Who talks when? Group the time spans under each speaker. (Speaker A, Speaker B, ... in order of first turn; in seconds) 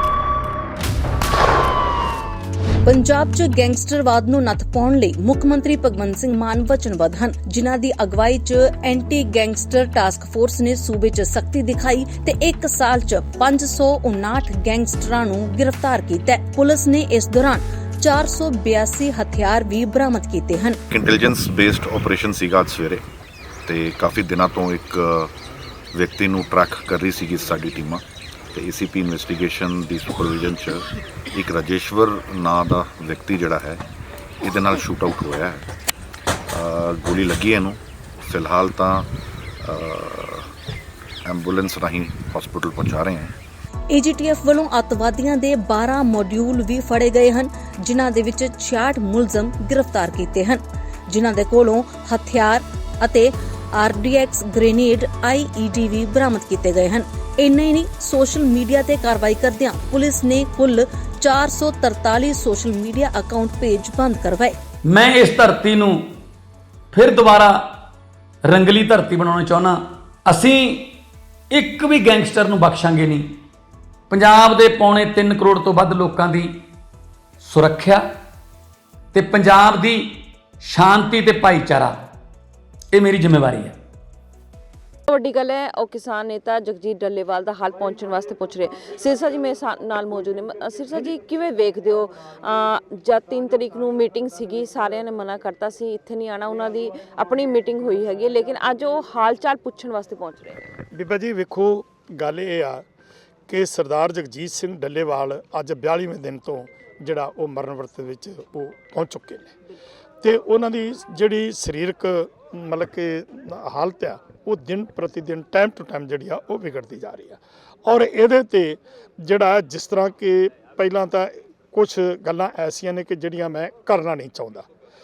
Speaker A: 2.9-20.8, 43.9-64.6
Speaker B: 20.9-23.0, 23.7-25.3, 25.9-28.0, 28.5-33.8, 34.4-35.7, 36.5-39.1, 39.6-40.5, 41.2-43.4
Speaker C: 64.9-66.1, 66.9-67.7, 68.5-70.9, 71.5-73.3, 74.1-76.5, 77.4-78.0, 79.1-82.0, 82.9-83.8
Speaker D: 85.1-100.8
Speaker E: 100.9-102.8, 103.5-109.5, 110.2-124.7